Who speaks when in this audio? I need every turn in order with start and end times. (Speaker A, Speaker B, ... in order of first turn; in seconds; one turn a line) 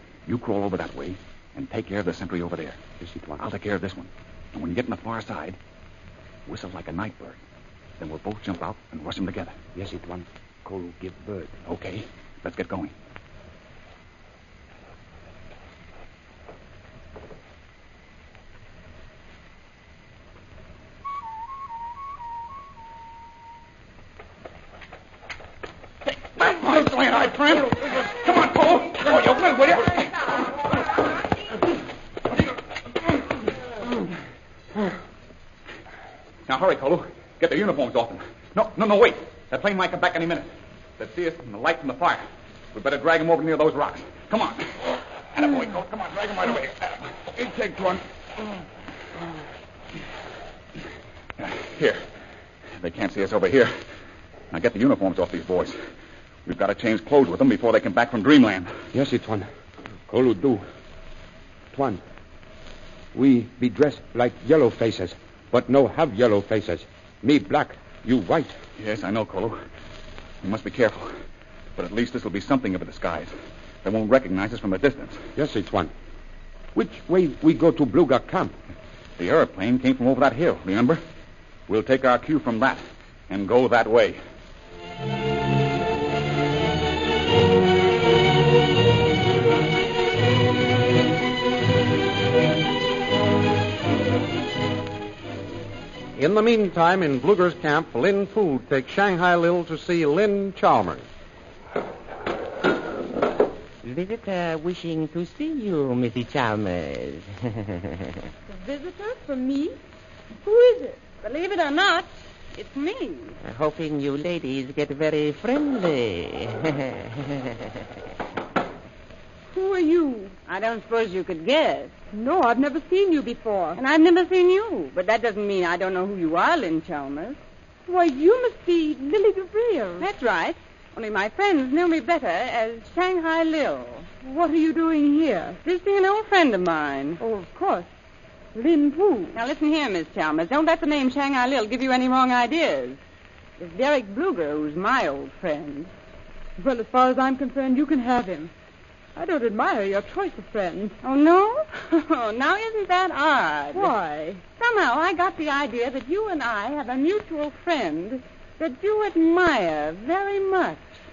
Speaker A: 0.3-2.8
Speaker B: 3.0-3.5
Speaker A: 3.4-5.6
Speaker A: 6.5-7.4
Speaker A: 8.0-9.6
Speaker B: 9.8-11.5
Speaker A: 11.6-12.9
Speaker A: 26.3-30.4
Speaker A: 36.5-48.0
Speaker A: 51.4-52.0
Speaker A: 52.8-53.7
Speaker A: 54.5-55.8
Speaker A: 56.4-58.7
Speaker B: 58.9-59.5
Speaker B: 60.1-60.6
Speaker B: 61.7-62.0
Speaker B: 63.1-68.5
Speaker A: 68.8-69.6
Speaker A: 70.4-71.1
Speaker A: 71.8-75.3
Speaker B: 75.3-75.9
Speaker B: 76.7-78.5
Speaker A: 79.2-81.0
Speaker A: 81.7-84.2
Speaker C: 96.2-101.1
Speaker D: 103.8-107.9
Speaker E: 108.5-109.8
Speaker E: 110.4-111.0
Speaker F: 111.2-113.4
Speaker D: 113.4-117.3
Speaker E: 119.5-120.3
Speaker F: 120.5-121.9
Speaker E: 122.1-123.8
Speaker F: 123.8-127.4
Speaker E: 127.9-130.1
Speaker F: 130.0-134.1
Speaker E: 134.2-135.6
Speaker F: 135.6-137.2
Speaker E: 137.2-137.9
Speaker E: 138.5-139.4
Speaker F: 139.3-143.0
Speaker F: 143.6-145.9
Speaker E: 146.6-148.5
Speaker E: 149.2-151.0
Speaker F: 151.0-153.9
Speaker E: 153.7-154.4
Speaker F: 154.6-161.0